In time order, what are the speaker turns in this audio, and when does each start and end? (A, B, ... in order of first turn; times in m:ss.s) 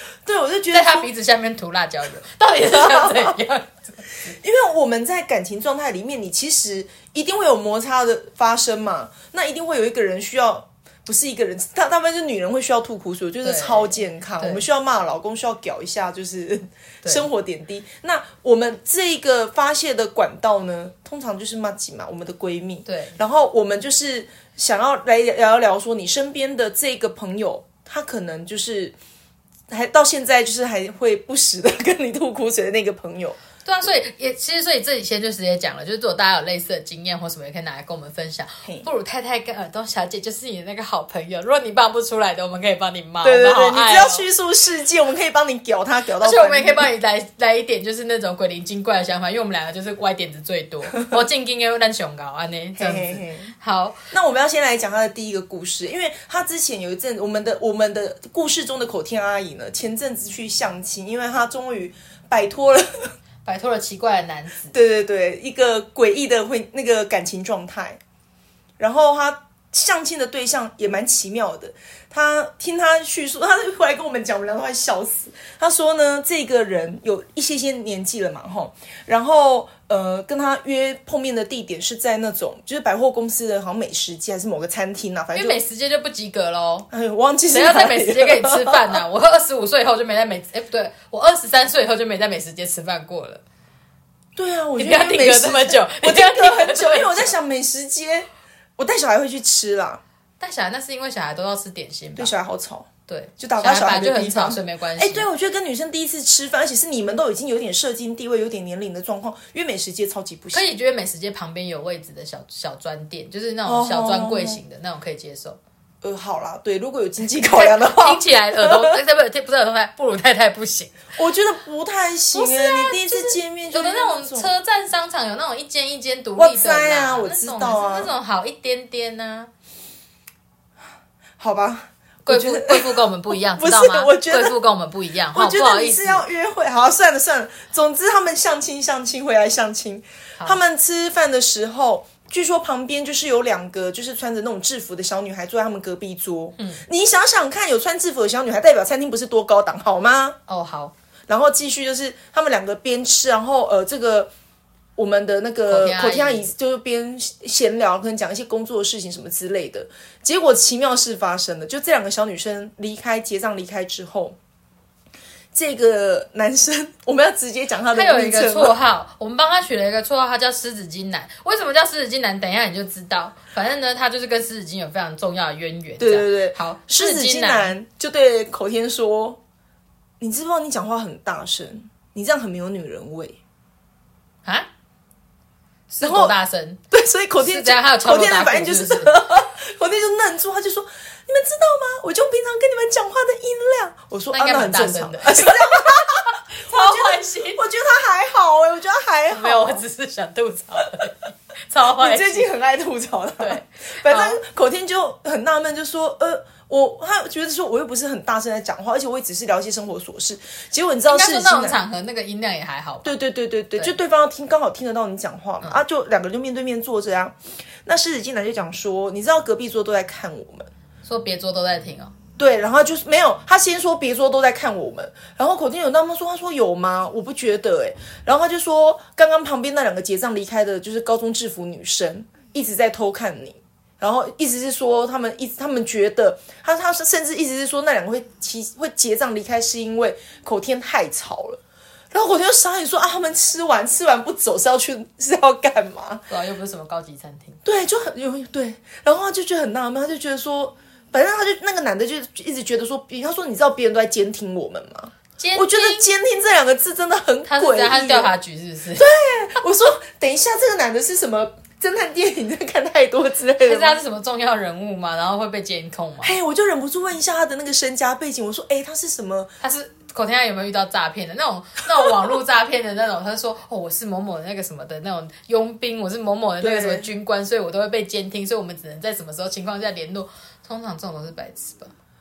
0:00.2-0:01.1 A
0:00.7-0:04.1 B
0:02.7-0:03.4 A
0:04.3-0:29.0 A
0:13.4-0:14.6 B
0:22.8-0:23.2 B
0:29.7-0:33.4 A
0:33.6-0:44.2 B
0:43.2-0:46.9 A
0:46.2-0:54.0 B
0:52.8-0:53.5 A
0:54.1-1:03.1 A
1:03.4-1:04.7 B
1:04.7-1:08.0 A
1:08.8-1:25.6 A
1:25.3-1:26.9 B
1:26.9-1:29.0 A
1:27.5-1:33.4 B
1:34.4-1:40.0 A
1:34.8-1:37.3 B
1:40.4-1:42.3 B
1:42.2-1:42.9 A
1:43.1-1:45.3 B
1:43.4-1:50.6 A
1:50.5-1:55.6 B
1:53.6-1:54.6 A
1:56.0-1:59.0 A
1:57.4-2:01.0 B
2:01.1-2:04.5 A
2:02.3-2:09.5 B
2:06.4-2:08.1 A
2:11.4-2:14.6 A
2:12.2-2:16.2 B
2:15.3-2:30.4 A
2:26.6-2:26.8 B
2:30.5-2:30.9 B
2:31.3-2:34.3 A
2:35.0-2:44.4 A
2:35.7-2:36.5 B
2:45.5-2:48.7 A
2:47.9-2:57.8 B
2:56.0-2:59.4 A
3:00.2-3:03.4 A
3:05.9-3:06.8 B
3:06.0-3:06.3 A
3:06.9-3:19.8 A
3:07.4-3:09.2 B
3:14.3-3:17.6 B
3:19.3-3:22.5 B
3:21.9-3:31.8 A
3:23.4-3:24.4 B
3:31.1-3:33.1 B
3:33.0-3:40.7 A
3:41.0-3:42.1 B
3:42.4-4:01.6 A
4:02.1-4:06.2 A
4:06.3-4:07.6 B
4:07.6-4:18.3 A
4:15.4-4:16.0 B
4:17.5-4:19.1 B
4:19.0-4:24.0 A
4:23.6-4:26.3 B
4:26.2-4:29.5 A
4:29.6-4:41.9 B
4:36.6-4:37.1 A